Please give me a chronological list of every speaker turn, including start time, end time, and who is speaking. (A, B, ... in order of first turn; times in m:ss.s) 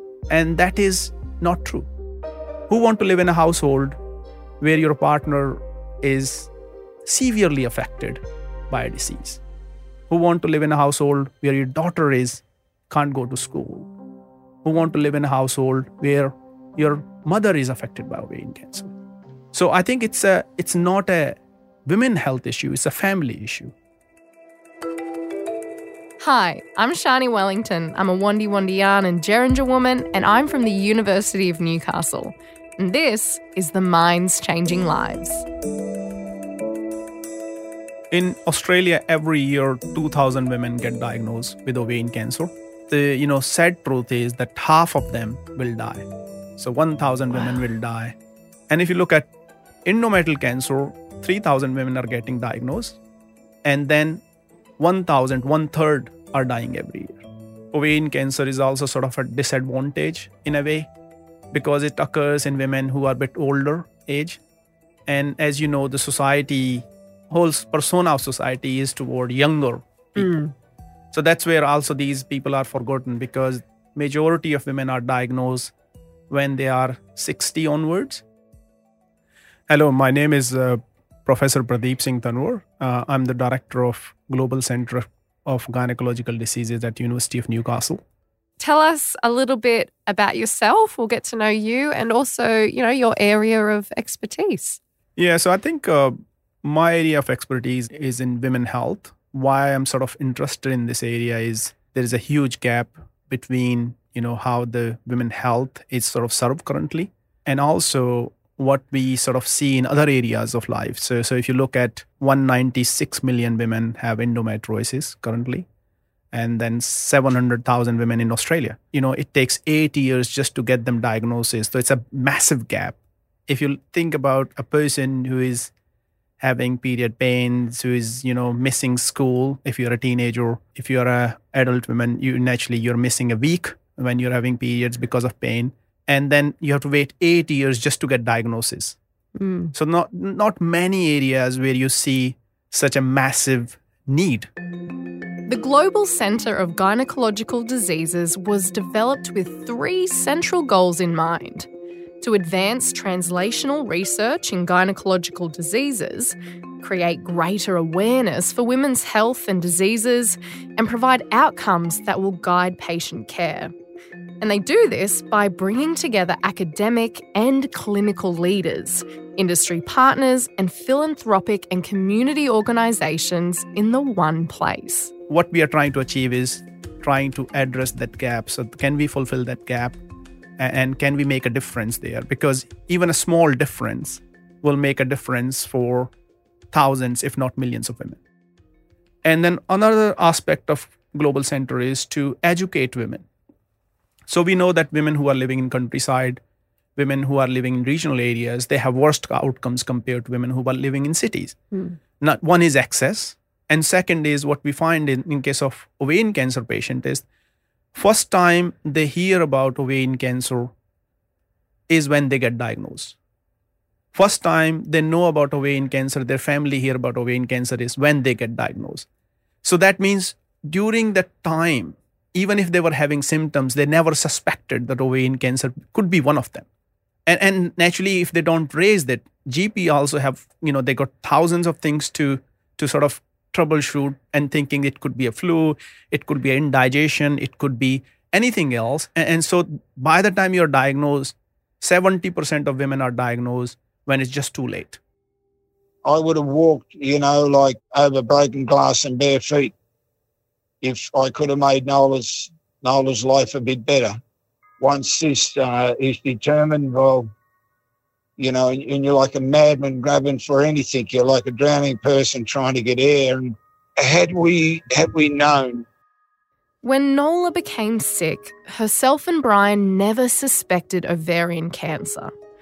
0:00.3-0:01.9 A
0:02.7-0:04.0 A
0:04.6-0:06.5 A
0:07.0-0:09.4 A
0:10.1-0:13.9 A
0:14.6-0:18.9 A
0:19.5-0:23.7 A
0:26.2-0:35.4 B
0:38.1-0:46.1 A
0:46.6-0:48.2 A
0:48.7-0:49.3 A
0:49.8-0:53.0 A
0:53.6-0:54.2 A
0:54.8-1:00.9 A
1:01.5-1:04.4 A
1:05.1-1:10.3 A
1:10.2-1:10.5 B
1:11.1-1:15.7 A
1:16.3-1:18.2 A
1:19.7-1:28.0 A
1:28.6-1:34.8 B
1:35.2-1:55.7 A
1:56.3-2:03.0 A
2:03.5-2:05.7 A
2:06.4-2:19.0 A
2:19.4-2:19.7 B
2:19.7-2:24.5 A
2:25.5-2:31.7 B
2:32.2-2:43.7 B
2:44.4-2:55.1 B
2:55.3-3:00.0 A
3:00.6-3:06.1 A
3:06.7-3:08.2 A
3:09.2-3:13.2 A
3:14.3-3:16.4 A
3:17.0-3:21.6 A
3:22.2-3:27.2 A
3:27.9-3:30.7 A
3:31.9-3:33.2 A
3:34.1-3:39.1 A
3:39.6-3:46.7 A
3:47.3-4:05.0 A
4:06.0-4:09.7 C
4:10.8-4:14.2 C
4:14.8-4:17.3 C
4:18.4-4:25.9 C
4:26.8-4:32.3 B